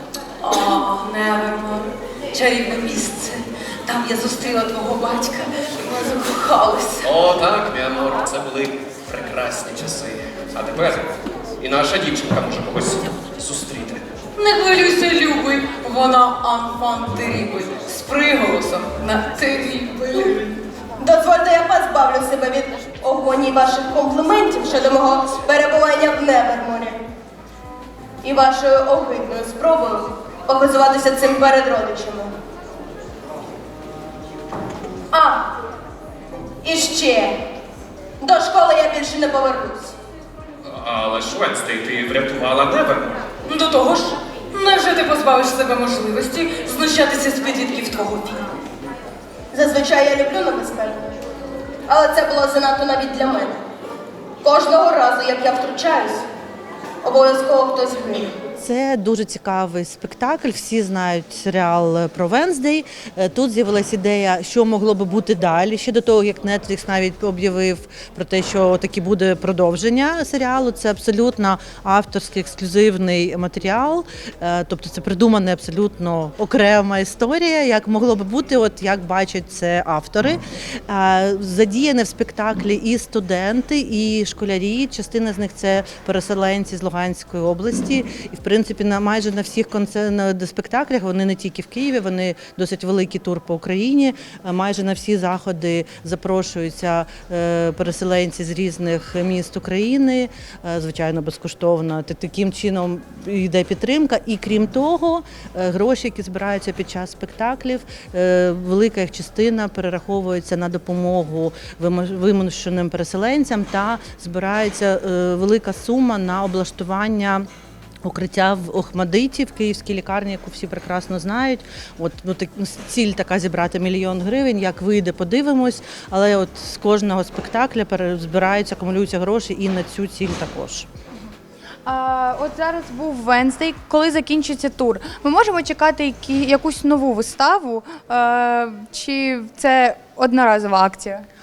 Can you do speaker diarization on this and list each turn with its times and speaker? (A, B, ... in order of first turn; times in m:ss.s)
0:00.4-0:07.1 A
0:07.0-0:14.0 B
0:14.4-0:20.4 A
0:21.0-0:26.9 C
0:28.2-0:32.3 C
0:35.1-0:35.4 C
0:36.6-0:37.3 C
0:38.2-0:39.9 C
0:40.7-0:43.2 B
0:43.4-0:48.4 A
0:49.5-0:50.9 C
0:51.9-0:53.5 C
0:54.4-0:56.2 C
0:57.0-0:58.2 C
0:58.6-1:57.5 D
1:58.0-2:10.9 D
2:11.8-2:21.2 E